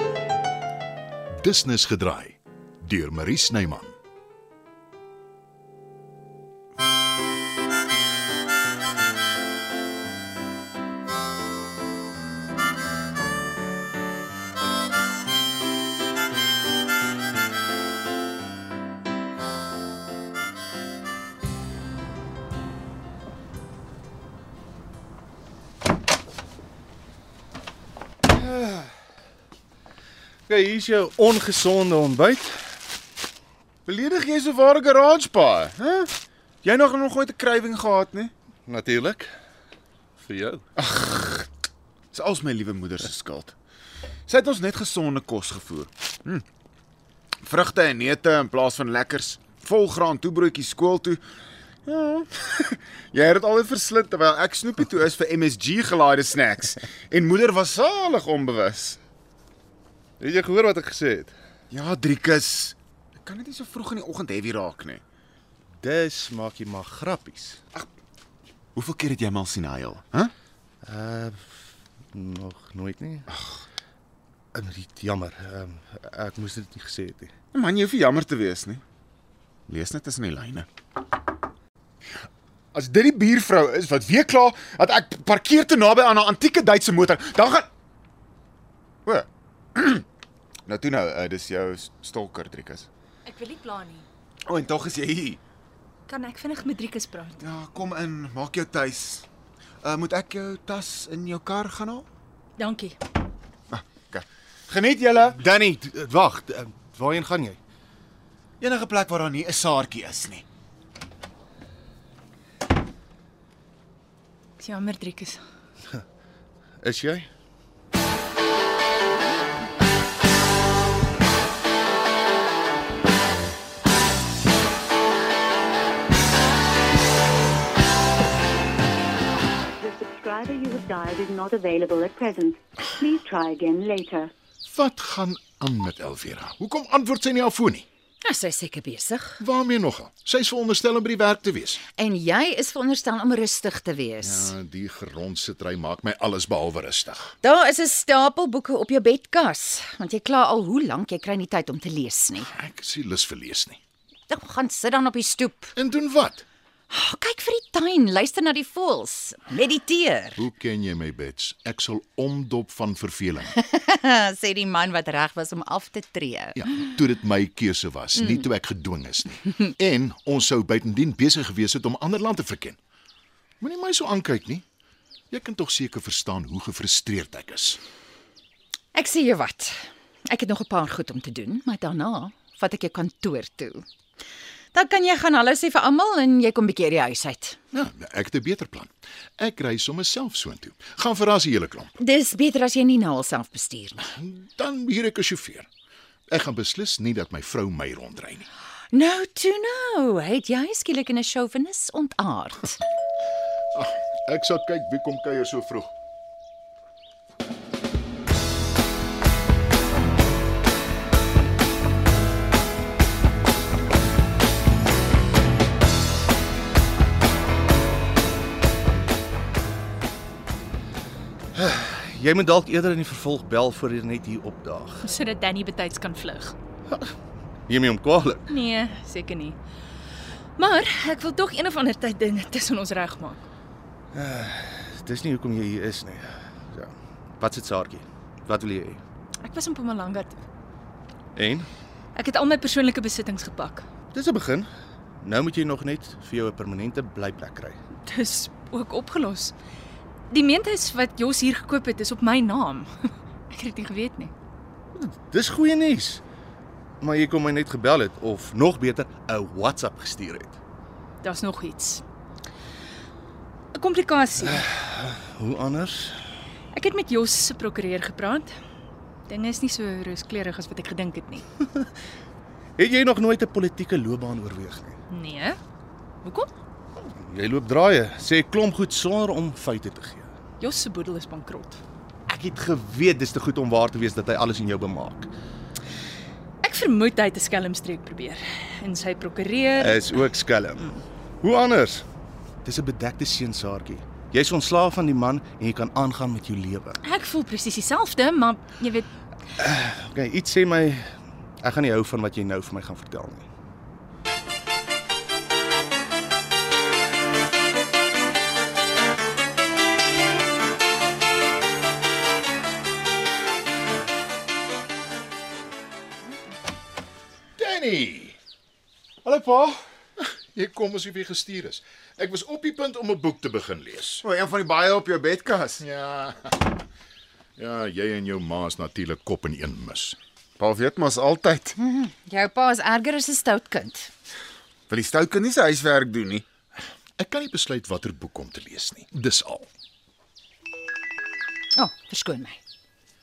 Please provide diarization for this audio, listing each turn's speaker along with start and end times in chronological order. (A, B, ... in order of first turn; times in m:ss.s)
0:01.4-0:04.0 A
0:28.4-0:28.9 B
0:30.5-0:32.7 B
0:33.8-0:38.3 C
0:38.7-0:39.3 B
0:40.2-0:40.6 B
0:40.8-0:41.5 C
0:42.1-0:43.5 C
0:44.3-0:46.4 C
0:47.4-0:51.2 C
0:51.8-0:59.0 C
1:00.2-1:01.3 B
1:01.7-1:05.0 C
1:05.8-1:07.6 B
1:08.7-1:10.3 C
1:10.8-1:13.3 B
1:14.5-1:17.3 B
1:17.5-1:18.8 C
1:19.7-1:20.7 C
1:22.7-1:27.7 C
1:29.0-1:30.0 C
1:30.7-1:32.9 C
1:33.2-1:34.0 D
1:34.5-1:35.4 C
1:36.1-1:37.4 D
1:37.4-1:39.3 C
1:39.8-1:42.0 C
1:42.6-1:43.0 D
1:43.7-1:45.8 C
1:45.7-1:47.6 B
1:48.6-1:50.4 C
1:54.6-1:55.4 D
1:56.8-1:57.3 B
2:09.8-2:14.3 E
2:14.6-2:17.9 A
2:18.2-2:19.4 F
2:19.4-2:21.8 A
2:22.0-2:24.5 F
2:24.2-2:27.4 A
2:27.4-2:32.5 F
2:32.5-2:33.8 A
2:34.3-2:35.7 F
2:35.8-2:36.4 A
2:36.9-2:40.4 F
2:40.4-2:43.6 A
2:43.6-2:46.6 F
2:46.6-2:52.8 A
2:53.6-2:54.6 A
2:55.3-2:57.8 A
2:58.9-2:59.8 F
3:00.3-3:03.8 F
3:04.7-3:07.6 F
3:07.7-3:11.9 A
3:12.0-3:14.1 F
3:14.1-3:15.7 A
3:16.3-3:18.5 A
3:18.9-3:22.8 F
3:23.7-3:25.9 A
3:41.6-3:45.1 B
3:45.0-3:46.6 D
3:47.7-3:48.5 B
3:48.5-3:49.6 D
3:50.6-3:53.4 D
3:54.1-3:59.0 B
3:59.4-4:00.4 D
4:01.4-4:01.7 B
4:02.2-4:03.9 D
4:04.1-4:04.7 B
4:05.2-4:07.8 B
4:08.0-4:09.6 D
4:10.3-4:14.3 D
4:14.9-4:16.2 B
4:17.0-4:20.6 B
4:21.2-4:22.0 D
4:23.7-4:24.7 D
4:24.4-4:26.2 B
4:26.7-4:28.6 D
4:29.3-4:31.5 D
4:32.8-4:34.9 B
4:35.1-4:35.6 D
4:36.2-4:36.5 D
4:37.0-4:40.3 B
4:40.6-4:41.8 D
4:42.3-4:45.3 B
4:46.6-4:50.1 D
4:49.8-4:52.0 B
4:52.6-4:57.0 B
4:57.0-4:59.1 D
4:59.6-5:03.5 B
5:17.6-5:18.4 A
5:19.2-5:19.8 C
5:20.2-5:24.2 A
5:24.2-5:25.8 C
5:25.8-5:26.7 A
5:27.6-5:30.2 A
5:30.6-5:31.8 C
5:31.8-5:34.1 F
5:34.9-5:36.4 C
5:37.2-5:39.7 A
5:41.8-5:42.6 F